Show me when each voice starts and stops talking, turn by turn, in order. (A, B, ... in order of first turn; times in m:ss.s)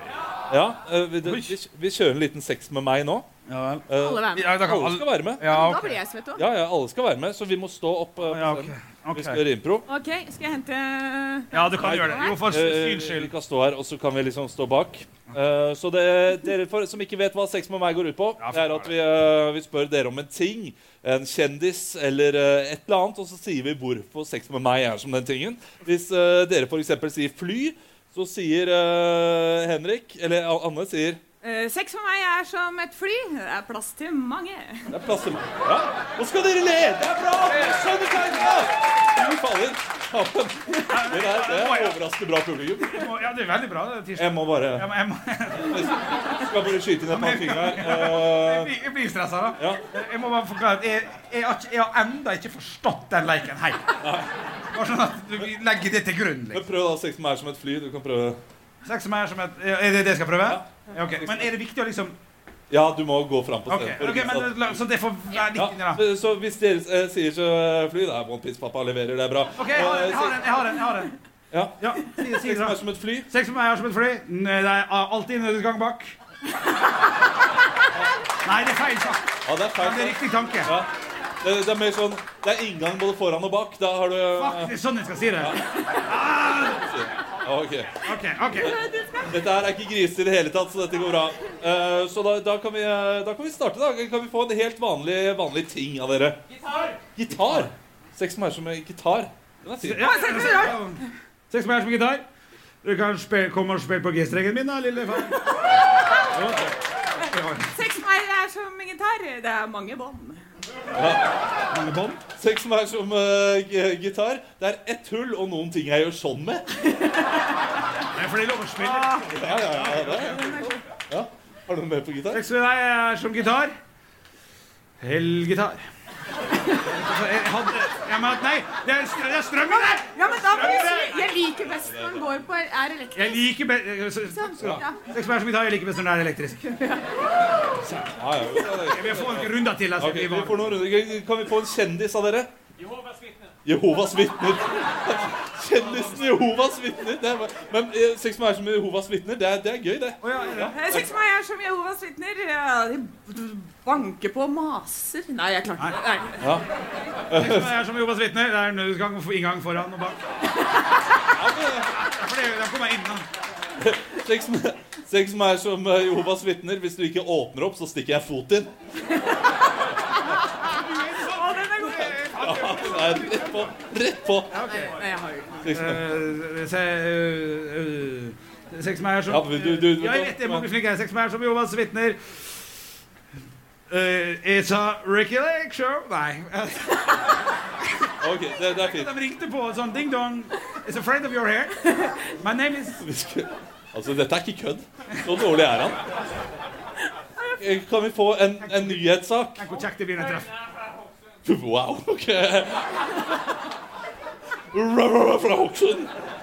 0:00.5-0:03.3 A
0:01.2-0:01.5 B
0:03.5-0:06.0 B
0:03.9-0:05.7 A
0:03.9-0:04.5 C
0:05.4-0:06.4 C
0:06.4-0:09.9 A
0:08.2-0:09.4 B
0:09.9-0:12.4 C
0:11.5-0:13.3 B
0:11.8-0:31.2 A
0:18.4-0:18.9 B
0:31.4-0:34.9 C
0:34.9-0:43.1 A
0:37.4-0:38.1 B
0:40.8-0:42.0 B
0:42.8-0:45.9 B
0:44.2-0:44.9 A
0:45.6-0:48.7 A
0:47.1-0:53.9 B
0:54.0-0:54.3 A
0:54.7-0:56.6 B
0:56.5-0:58.4 A
0:58.8-1:02.1 B
1:00.4-1:01.5 A
1:02.7-1:04.7 A
1:03.7-1:06.0 B
1:05.5-1:10.6 A
1:09.6-1:11.1 B
1:11.5-1:13.3 A
1:11.8-1:16.1 B
1:18.4-1:20.7 B
1:19.4-1:20.9 A
1:21.4-1:24.7 A
1:24.4-1:26.8 B
1:25.4-1:28.0 A
1:28.0-1:28.8 B
1:28.6-1:29.3 C
1:28.7-1:36.4 A
1:36.7-1:37.7 B
1:37.1-1:40.5 A
1:39.8-1:42.2 B
1:40.0-1:41.0 C
1:42.8-1:45.4 B
1:46.3-1:47.8 B
1:47.7-1:50.4 C
1:50.9-1:51.3 A
1:51.7-1:52.2 B
1:52.4-1:56.6 A
1:58.1-2:00.7 B
1:58.8-1:59.3 C
1:59.3-2:00.5 A
2:00.1-2:00.8 C
2:01.1-2:02.4 A
2:02.3-2:03.7 B
2:05.0-2:05.8 B
2:06.8-2:11.3 B
2:09.7-2:13.4 C
2:11.6-2:12.3 A
2:13.1-2:16.6 B
2:14.3-2:15.0 C
2:16.6-2:17.2 C
2:17.8-2:20.7 B
2:18.2-2:22.5 A
2:23.6-2:31.1 A
2:30.2-2:30.8 B
2:30.7-2:36.4 C
2:36.4-2:36.6 A
2:37.3-2:37.8 A
2:37.3-2:40.2 B
2:41.4-2:41.9 A
2:41.9-2:43.2 B
2:43.8-2:48.7 A
2:49.3-2:49.6 C
2:50.7-2:53.7 B
2:51.2-2:52.1 C
2:52.3-2:54.5 A
2:54.5-2:55.0 B
2:54.7-2:55.6 C
2:55.6-2:56.0 A
2:55.6-3:02.4 B
2:59.3-3:00.6 A
3:03.9-3:07.3 B
3:08.2-3:09.1 A
3:08.8-3:11.8 B
3:12.4-3:13.0 B
3:13.0-3:16.0 A
3:17.6-3:19.6 A
3:18.6-3:19.0 B
3:19.6-3:20.5 B
3:21.4-3:23.5 A
3:24.7-3:26.1 A